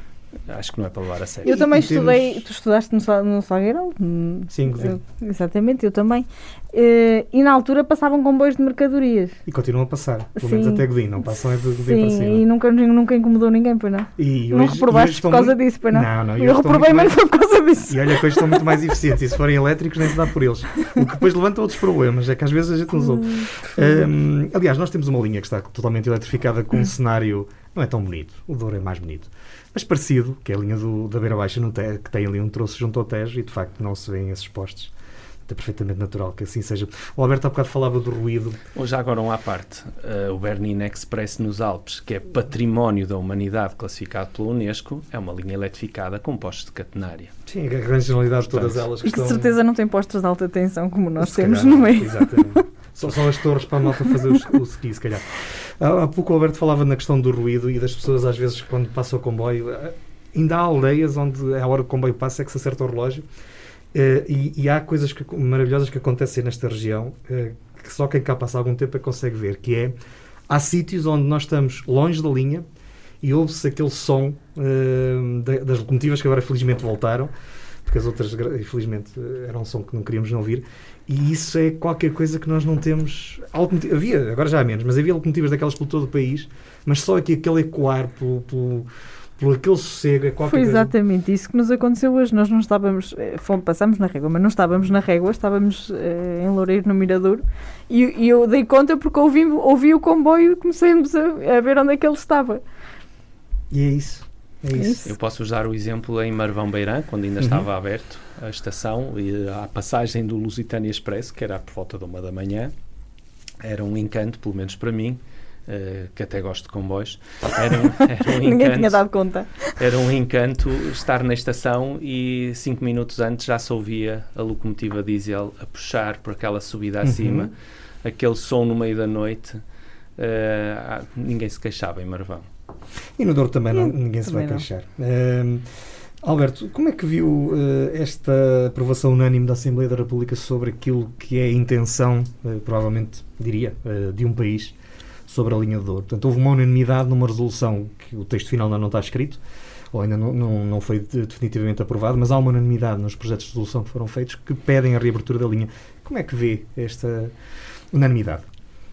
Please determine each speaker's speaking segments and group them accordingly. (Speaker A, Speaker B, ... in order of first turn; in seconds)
Speaker A: 0.5-1.6, 38.7-47.3, 48.5-48.8, 105.0-112.7, 113.6-119.0, 119.7-129.6, 130.2-132.5
Speaker B: 1.4-9.4, 10.4-10.8, 11.8-18.6, 23.3-24.0, 49.0-52.6, 90.5-102.6, 104.7-105.1, 118.3-119.7, 133.7-134.6
Speaker C: 1.4-2.4, 4.5-5.0, 9.4-12.4, 14.2-17.2, 17.9-34.9, 35.5-38.6, 47.5-49.5, 51.2-63.2, 63.9-69.9, 70.5-72.6, 73.2-77.3, 77.8-90.9, 103.7-105.1, 107.4-107.7, 127.0-127.5, 133.2-135.7, 136.2-144.8, 145.3-149.4, 149.9-157.3, 157.9-158.4